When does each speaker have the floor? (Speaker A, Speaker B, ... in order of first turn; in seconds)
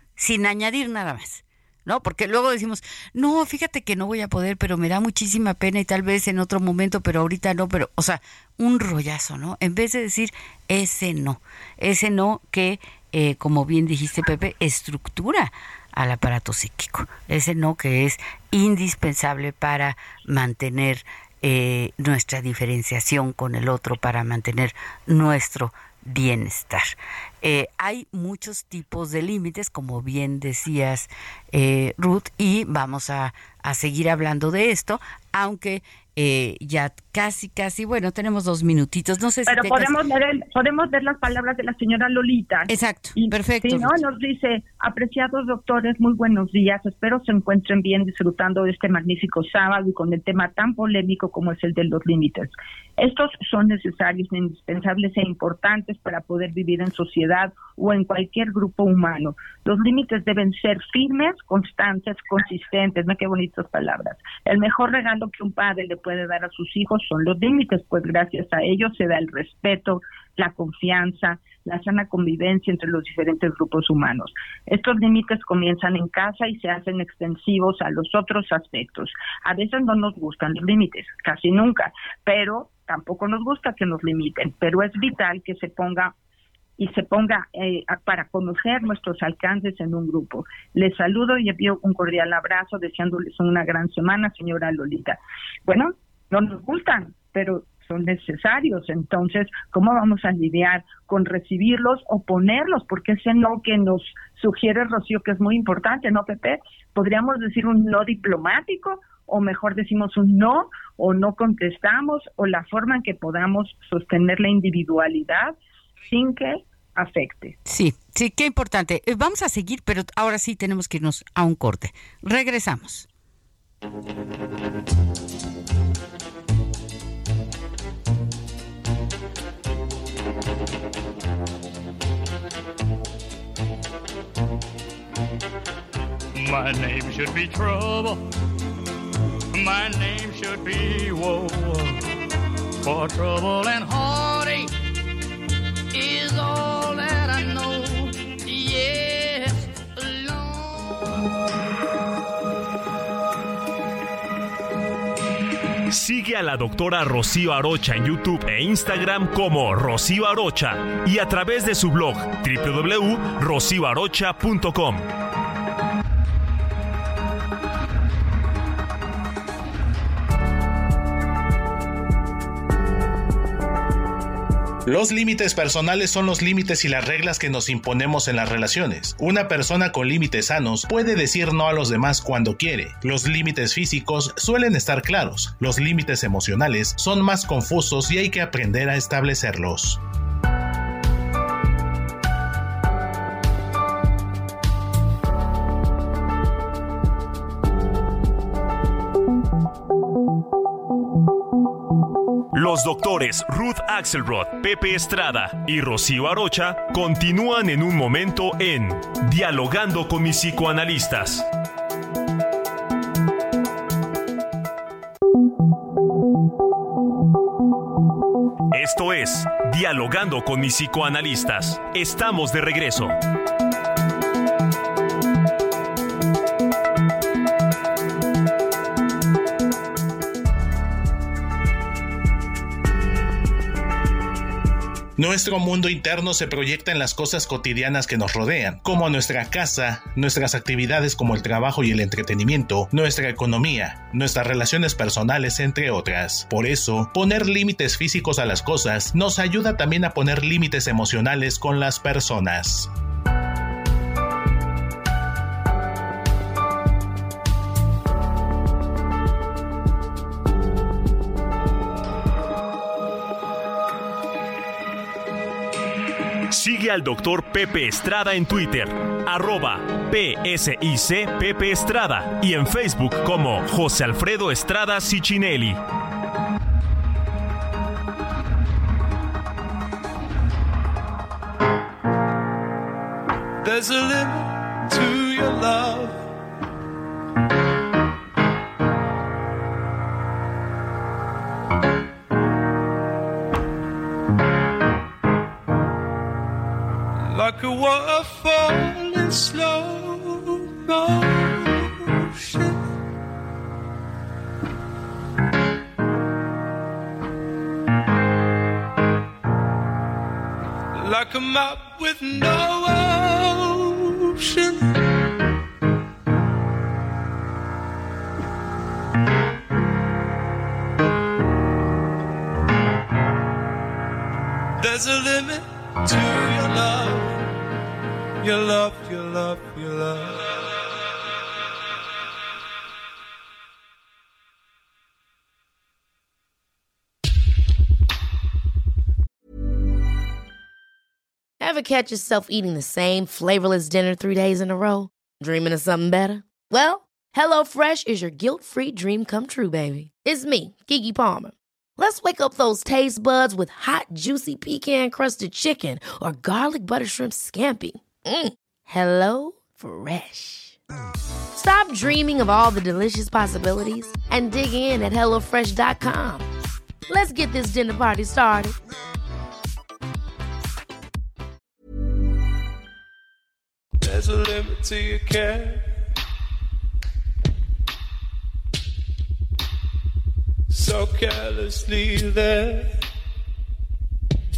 Speaker A: 0.2-39.9, 42.7-44.0, 117.6-123.1
Speaker B: 39.5-86.1, 86.8-117.5
Speaker C: 136.3-138.2, 139.5-142.0, 142.8-144.7, 145.9-151.2
Speaker D: 155.9-165.1, 202.5-211.5, 218.7-223.2, 266.5-275.8
Speaker E: 174.8-190.0, 235.2-252.9
Speaker F: 283.6-286.2, 297.2-302.8, 310.9-314.9, 324.8-327.4, 328.4-330.4, 374.0-375.8, 380.7-382.9
Speaker G: 341.6-360.8, 361.5-366.5, 367.1-368.7